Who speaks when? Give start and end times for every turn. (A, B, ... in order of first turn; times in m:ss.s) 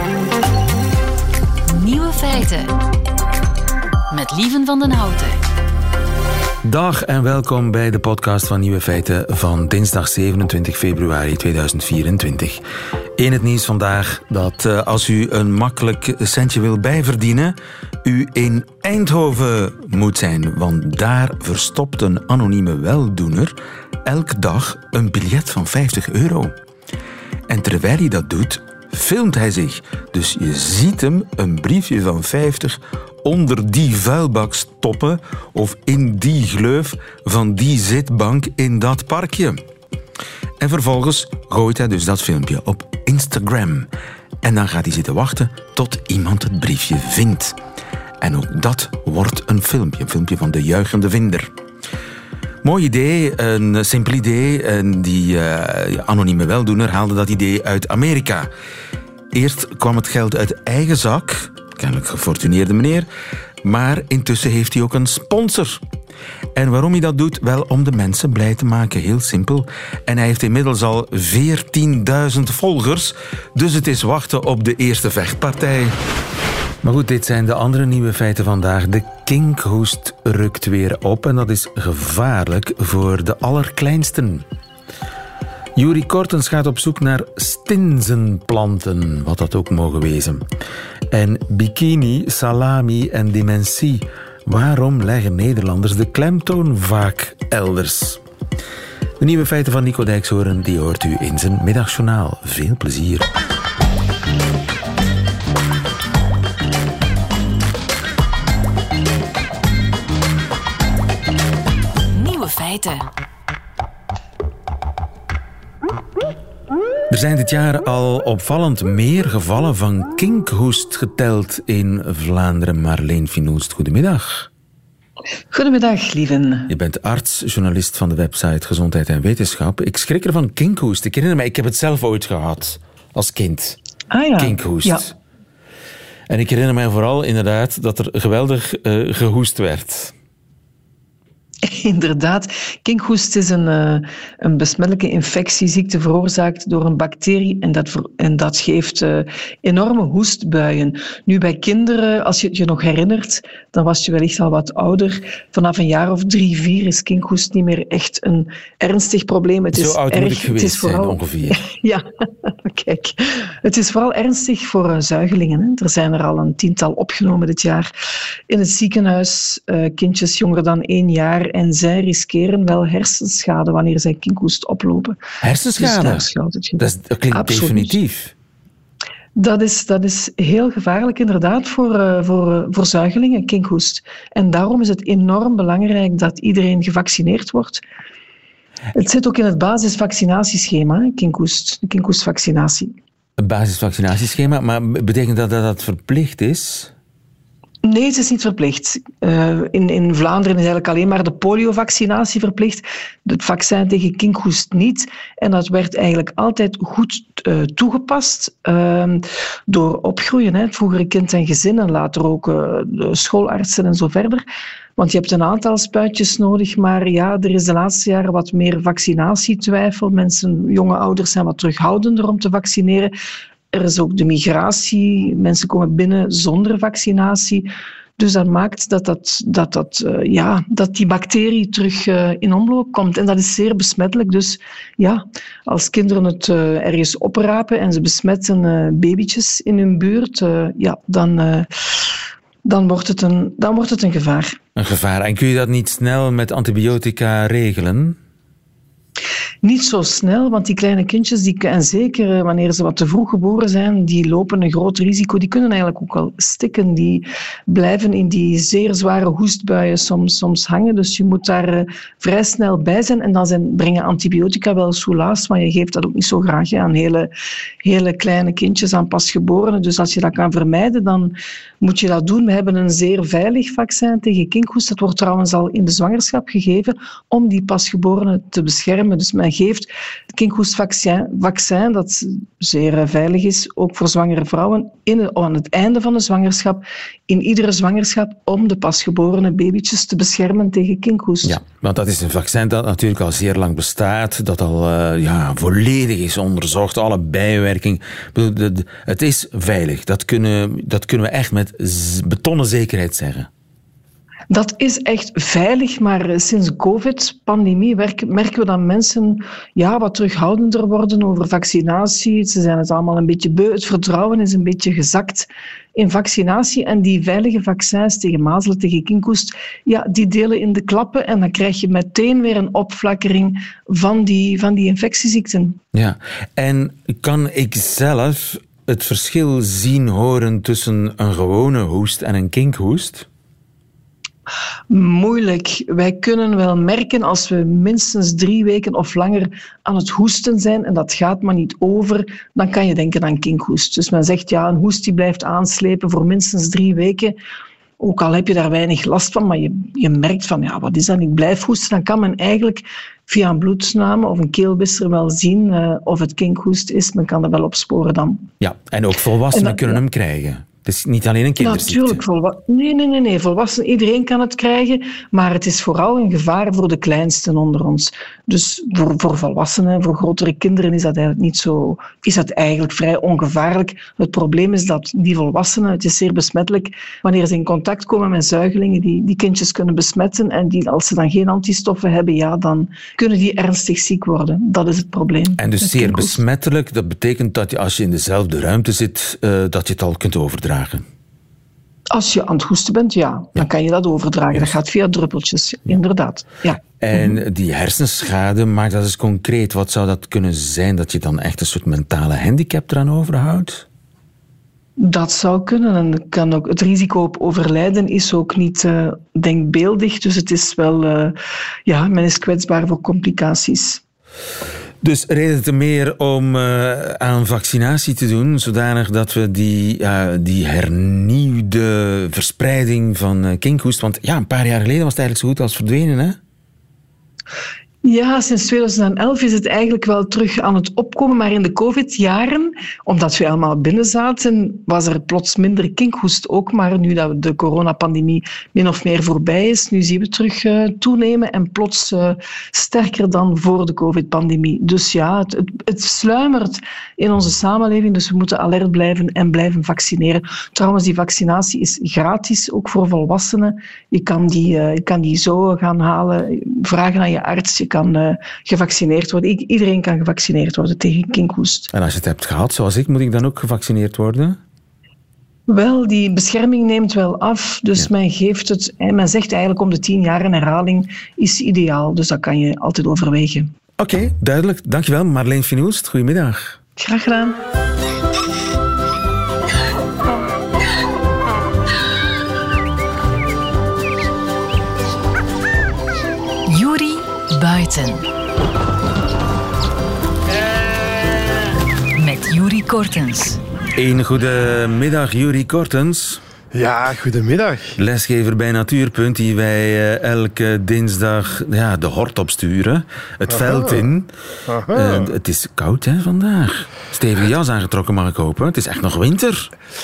0:01.7-0:02.8 A
0:04.1-0:05.4 A
0:06.6-0:12.6 B
0:13.2-0:23.6 B
0:24.1-0:26.5 B
0:27.5-0:39.6 B
0:40.6-0:43.9 B
0:44.4-0:47.6 B
0:48.2-0:51.5 B
0:52.6-0:58.5 B
0:59.3-1:03.1 B
1:03.6-1:05.8 B
1:06.6-1:16.0 B
1:16.8-1:24.4 B
1:25.8-1:30.4 B
1:31.1-1:38.2 B
1:39.2-1:43.3 B
1:52.1-1:53.1 A
1:57.1-2:04.5 B
2:05.5-2:06.7 C
2:06.7-2:13.8 B
2:14.1-2:15.0 C
2:14.4-2:15.1 B
2:16.3-2:20.1 B
2:21.6-2:47.9 C
2:39.7-2:41.6 B
2:48.5-2:55.2 C
2:55.4-2:58.3 B
2:55.8-2:58.0 C
2:59.4-3:07.8 C
3:09.0-3:12.9 C
3:13.4-3:16.9 B
3:17.8-3:34.4 C
3:35.0-3:43.1 C
3:43.7-4:01.7 C
4:02.6-4:04.6 C
4:04.8-4:08.2 B
4:09.6-4:27.3 C
4:27.8-4:51.6 C
4:51.4-5:03.5 B
5:04.5-5:25.8 C
5:25.9-5:33.3 B
5:34.9-5:47.4 C
5:48.0-5:58.5 C
5:58.6-6:02.2 B
5:59.5-6:00.0 C
6:01.6-6:26.4 C
6:25.6-6:31.0 B
6:32.1-6:37.4 C
6:37.0-6:43.8 B
6:45.0-6:51.4 C
6:51.9-6:54.0 C
6:55.0-7:06.4 B
7:08.0-7:41.9 C
7:41.9-7:44.6 B
7:45.7-7:53.7 C
7:54.0-7:56.8 B
7:57.0-7:57.6 C
8:06.7-8:08.3 A
8:12.2-8:13.6 A
8:14.0-8:16.4 B
8:16.7-8:18.0 D
8:18.0-8:24.3 B
8:23.5-8:24.1 D
8:24.7-8:25.4 D
8:24.9-8:29.7 B